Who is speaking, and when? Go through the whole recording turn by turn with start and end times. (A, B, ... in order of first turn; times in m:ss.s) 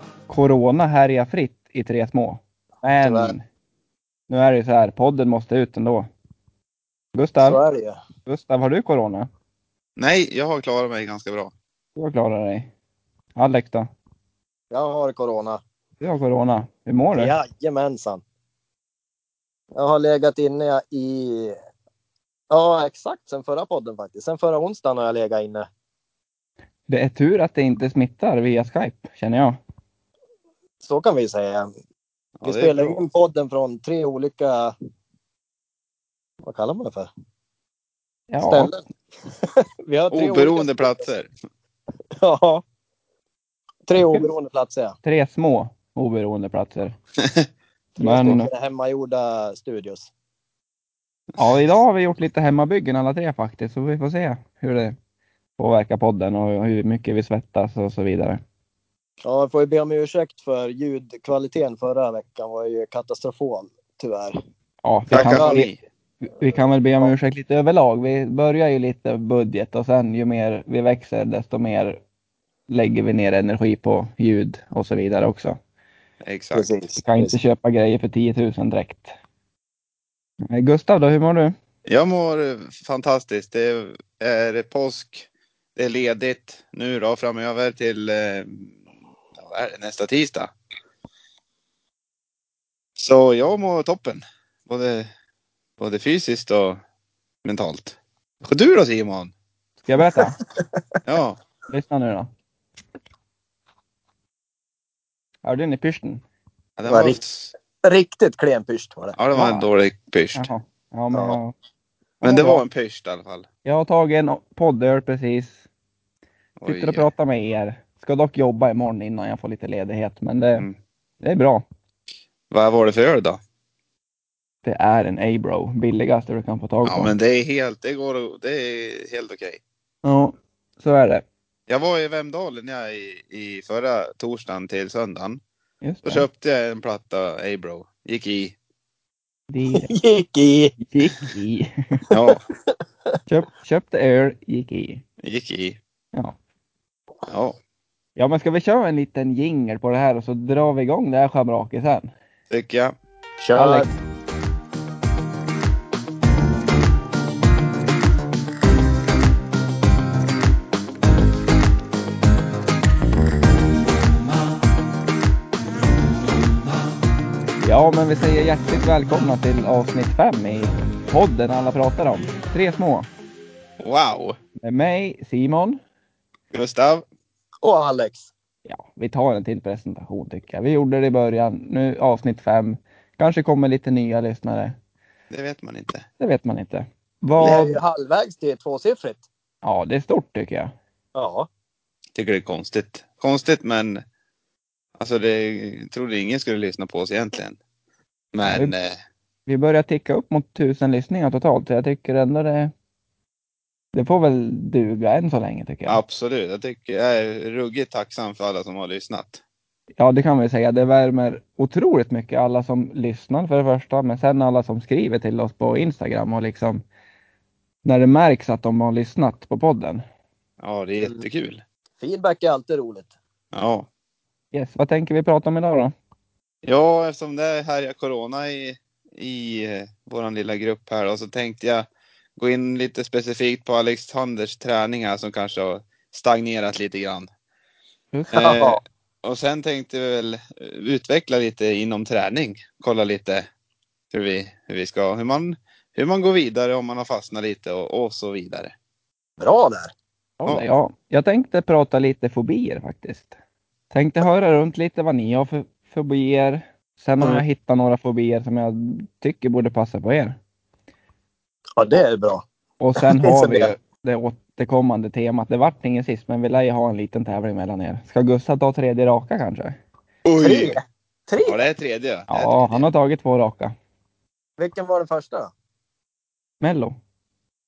0:00.3-0:03.4 A
0:03.0-0:03.3 B
0:04.3-0:06.1 A
0:07.1-0:07.6 A
0:07.4-0:08.0 B
0:08.2-0:09.3 A
0:10.0-0:11.5 C
0:12.0-0:12.7 A
0:13.4-0:13.9 A
0:14.7-0:15.6 B
0:16.0-0:17.3 A
0:17.1-0:18.2 B
0:19.7-0:21.6 B
0:22.5-0:25.7 B
0:26.9-0:29.6 A
0:30.8-0:31.7 B
0:32.4-0:33.0 C
0:32.4-0:34.7 B
0:36.4-0:37.1 B
0:38.3-0:38.7 A
0:38.4-0:41.0 B
0:40.1-0:41.3 C
0:42.2-0:42.6 B
0:43.9-0:45.0 B
0:44.0-0:44.3 A
0:45.0-0:46.9 A
0:48.0-0:48.5 A
0:48.0-0:50.1 B
0:51.4-0:54.9 A
0:55.6-0:58.4 A
0:59.2-1:04.4 B
1:04.8-1:05.7 A
1:05.1-1:05.8 C
1:05.1-1:05.6 B
1:06.2-1:12.0 A
1:06.4-1:07.1 B
1:12.7-1:15.6 A
1:16.2-1:16.6 C
1:16.5-1:17.3 B
1:17.0-1:19.1 A
1:20.5-1:21.5 A
1:21.8-1:28.7 C
1:29.3-1:30.5 C
1:33.0-1:35.1 C
1:35.8-1:36.8 C
1:37.4-1:39.3 C
1:39.8-1:40.4 A
1:41.0-1:41.4 C
1:41.7-1:42.3 A
1:45.4-1:46.2 A
1:46.8-1:47.5 C
1:46.9-1:47.2 B
1:47.8-1:49.2 B
1:49.2-1:50.5 C
1:49.3-1:49.7 A
1:50.3-1:51.5 A
1:51.1-1:51.4 B
1:52.2-1:52.6 A
1:52.2-1:53.5 C
1:53.6-1:55.6 A
1:56.6-1:57.1 C
1:56.6-2:00.6 A
2:01.2-2:01.6 A
2:02.5-2:03.4 C
2:04.6-2:07.1 A
2:06.8-2:09.6 C
2:10.0-2:11.2 A
2:11.7-2:15.4 C
2:15.8-2:16.2 A
2:16.0-2:18.6 C
2:19.5-2:19.9 A
2:19.7-2:20.8 B
2:20.8-2:22.0 A
2:22.1-2:22.4 C
2:22.7-2:23.2 B
2:23.3-2:25.0 A
2:25.2-2:25.8 C
2:27.3-2:27.6 C
2:28.2-2:32.1 A
2:32.5-2:32.9 C
2:33.4-2:33.9 B
2:33.5-2:33.9 A
2:47.6-2:53.1 A
2:53.8-2:54.4 C
2:54.6-2:55.8 A
2:56.5-2:57.0 C
2:57.6-2:58.3 B
2:58.6-3:04.7 A
3:05.3-3:06.0 C
3:06.2-3:07.8 A
3:07.4-3:09.2 B
3:09.6-3:10.7 A
3:11.1-3:11.5 B
3:12.1-3:14.0 C
3:15.0-3:17.6 C
3:18.3-3:19.0 C
3:18.4-3:18.7 A
3:19.4-3:22.7 A
3:23.9-3:26.0 A
3:25.8-3:29.4 C
3:30.0-3:36.8 A
3:37.8-3:40.0 A
3:40.6-3:41.6 C
3:42.0-3:43.1 B
3:43.5-3:43.9 C
3:44.5-3:45.9 A
3:46.6-3:57.3 C
3:58.1-3:58.6 A
3:58.3-4:03.5 C
3:58.4-3:58.8 B
4:04.1-4:08.7 C
4:09.4-4:09.9 B
4:10.4-4:13.3 A
4:13.9-4:20.4 A
4:21.8-4:22.4 B
4:22.8-4:29.8 A
4:23.0-4:23.7 B
4:30.2-4:30.8 C
4:30.4-4:31.6 B
4:31.4-4:32.8 C
4:32.3-4:33.7 A
4:34.6-4:35.5 B
4:36.6-4:36.9 A